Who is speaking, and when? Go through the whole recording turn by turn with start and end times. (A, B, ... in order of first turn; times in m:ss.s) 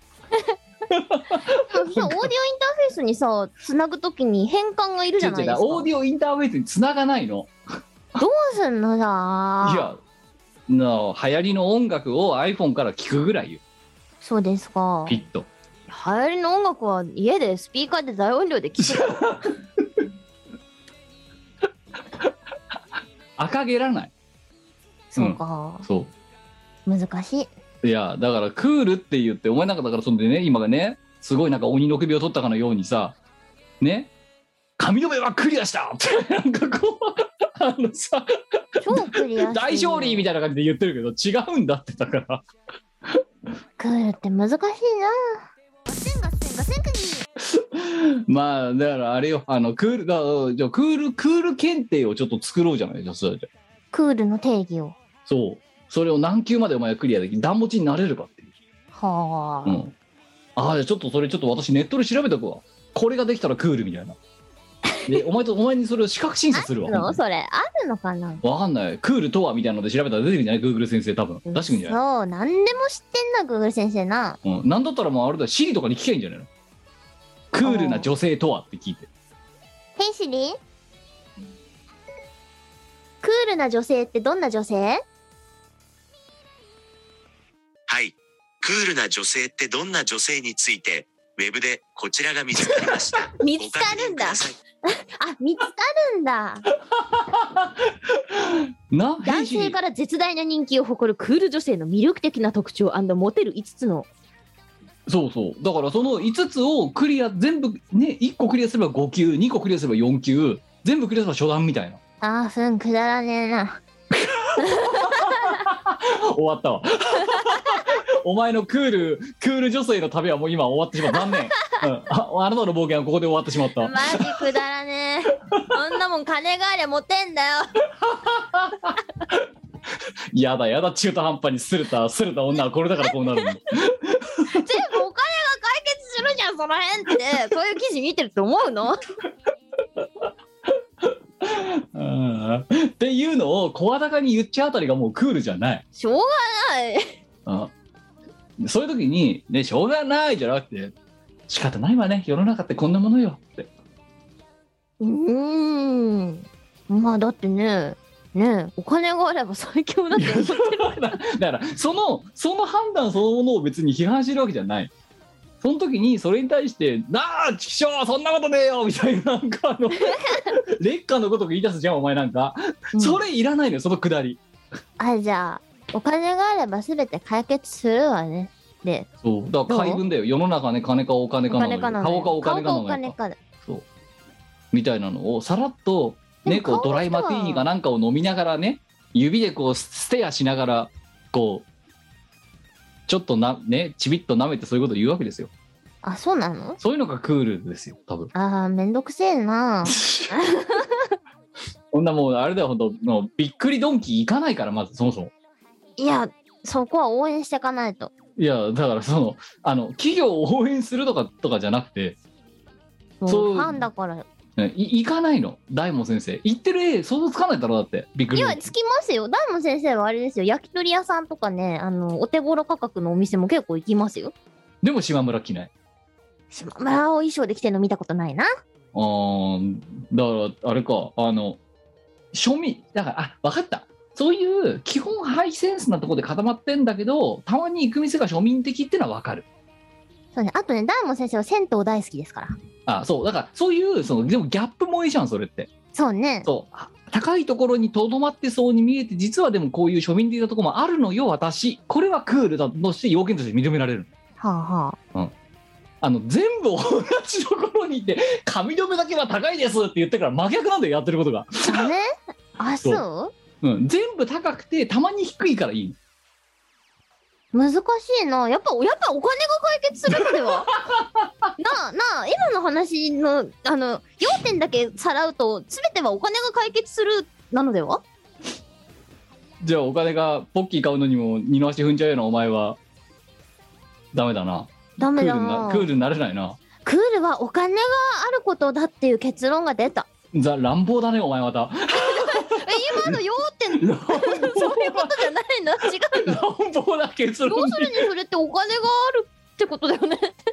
0:00.9-0:02.3 A
0:01.5-0:05.9 B
0:05.2-0:07.5 A
0:08.2-0:09.9 B
0:09.6-0:10.0 A
0:10.7-0:13.6 A
0:14.2-0:15.2 B
0:15.1-0:15.5 A
0:15.9-0:19.2 B
0:18.8-0:19.5 A
0:23.4-0:24.1 A
0:25.1-0:25.8 B
0:25.1-0:26.1 A
0:26.8-0:27.5 B
0:27.8-0:33.2 A
0:33.8-0:34.1 A
0:34.8-0:42.4 A
0:38.8-0:40.3 B
0:43.8-0:47.2 B
0:47.4-0:53.5 A
0:53.9-0:55.0 B
0:55.3-0:58.5 A
0:58.9-0:59.8 B
0:59.6-0:59.9 A
1:00.6-1:04.2 A
1:05.0-1:07.2 A
1:06.5-1:08.4 B
1:08.4-1:12.0 A
1:11.5-1:14.4 B
1:14.4-1:16.5 A
1:17.5-1:19.1 A
1:17.6-1:18.1 B
1:20.0-1:20.6 B
1:23.2-1:25.0 B
1:27.9-1:34.6 C
1:33.4-1:36.6 B
1:36.9-1:39.8 A
1:39.2-1:44.1 B
1:45.1-1:52.0 A
1:52.2-1:53.8 B
1:54.1-2:04.4 A
1:54.6-1:55.6 B
2:01.1-2:01.4 B
2:03.8-2:07.7 B
2:08.0-2:09.4 A
2:10.3-2:14.6 A
2:13.1-2:13.4 B
2:14.5-2:19.0 B
2:20.0-2:25.8 A
2:25.9-2:27.1 B
2:27.4-2:27.7 A
2:28.6-2:30.9 A
2:31.5-2:33.7 A
2:35.0-2:41.2 B
2:40.1-2:44.9 A
2:45.6-2:54.4 A
2:52.9-2:53.2 B
2:55.0-2:59.1 B
2:59.2-3:03.8 A
2:59.7-3:00.0 B
3:01.5-3:03.4 B
3:04.7-3:11.7 A
3:06.4-3:07.6 B
3:13.1-3:15.5 A
3:16.0-3:16.8 B
3:16.8-3:18.3 A
3:18.3-3:20.9 B
3:19.9-3:20.3 A
3:21.9-3:25.3 A
3:26.0-3:28.1 B
3:28.4-3:32.2 A
3:33.2-3:34.2 B
3:33.3-3:33.8 A
3:34.6-3:38.7 A
3:38.3-3:44.3 B
3:44.8-3:45.7 A
3:46.5-3:48.5 B
3:48.9-3:51.6 A
3:52.3-3:59.4 A
4:00.3-4:02.5 B
4:02.9-4:05.7 A
4:05.9-4:06.5 B
4:06.4-4:14.1 A
4:14.4-4:15.0 B
4:16.0-4:21.9 A
4:21.6-4:23.3 B
4:23.6-4:26.0 A
4:27.5-4:30.7 B
4:30.1-4:31.5 A
4:31.6-4:38.0 B
4:39.6-4:42.8 A
4:44.1-4:46.6 A
4:45.0-4:45.9 B
4:46.8-4:50.1 B
4:50.3-4:53.2 A
4:51.9-4:56.4 B
4:53.8-4:55.2 A
4:56.1-4:58.1 A
4:57.4-5:00.4 B